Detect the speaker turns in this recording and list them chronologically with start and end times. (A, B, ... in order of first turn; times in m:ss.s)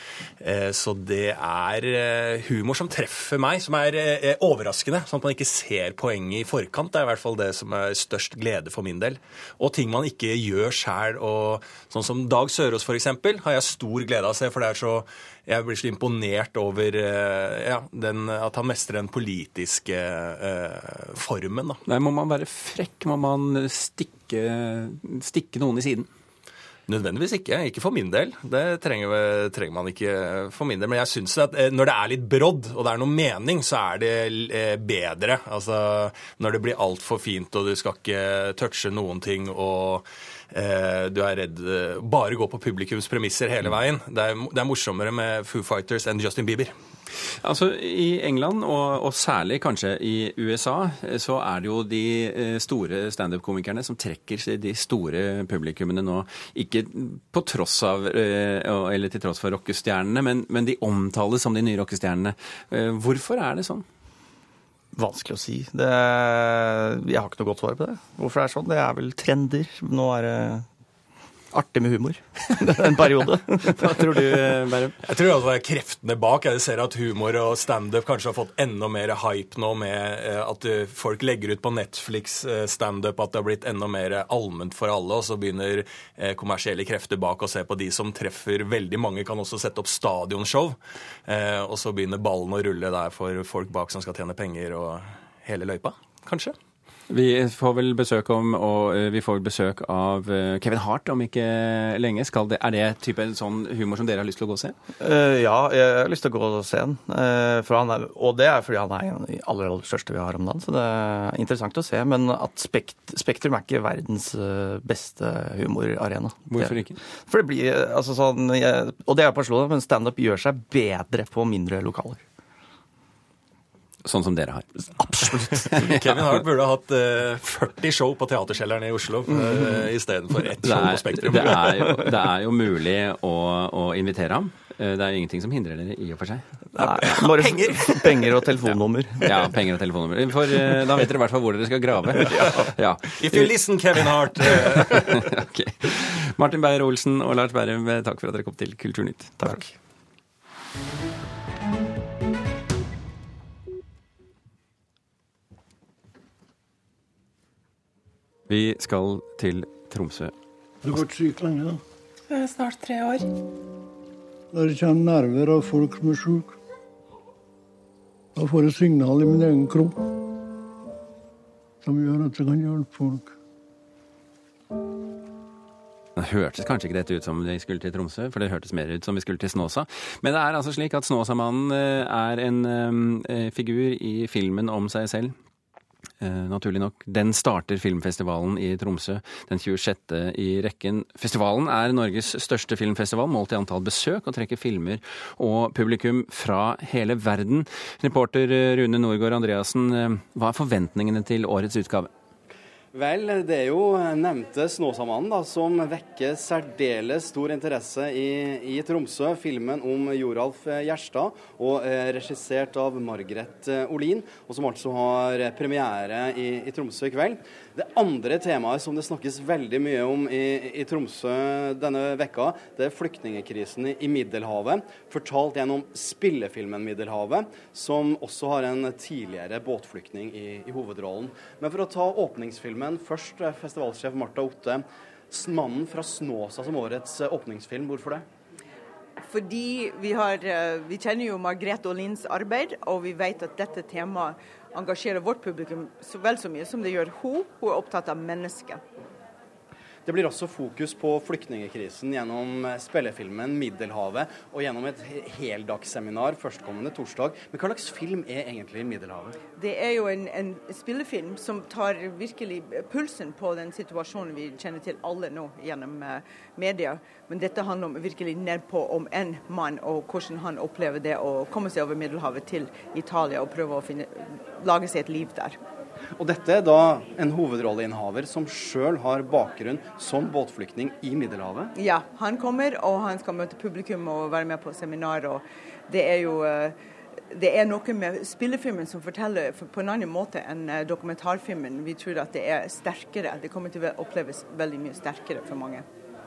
0:00.4-0:21.8 A
0:21.9-0:26.1 B
0:26.9-0:46.7 A
0:47.4-1:03.8 B
1:04.9-1:10.7 C
1:11.5-1:14.4 C
1:13.7-1:15.0 B
1:15.0-1:36.6 A
1:37.1-1:44.8 B
1:45.0-2:02.2 C
1:56.5-1:57.0 B
2:04.1-2:06.1 B
2:05.0-2:05.2 C
2:05.8-2:11.5 A
2:10.6-2:16.4 B
2:11.4-2:11.9 C
2:16.7-2:19.5 C
2:17.4-2:18.1 A
2:19.2-2:23.5 B
2:22.2-2:22.7 C
2:23.2-2:25.2 A
2:25.1-2:29.3 B
2:29.4-2:29.7 C
2:38.5-2:40.3 B
2:40.8-2:41.8 D
2:44.5-2:46.6 D
2:48.4-2:50.1 D
2:51.8-2:53.3 D
2:56.2-3:05.4 B
3:06.2-3:22.1 B
3:22.9-3:58.2 E
3:59.2-4:08.8 F
4:10.0-4:19.4 E
4:19.6-4:35.6 F
4:36.2-4:41.7 E
4:41.8-4:46.8 F
4:47.3-4:55.8 F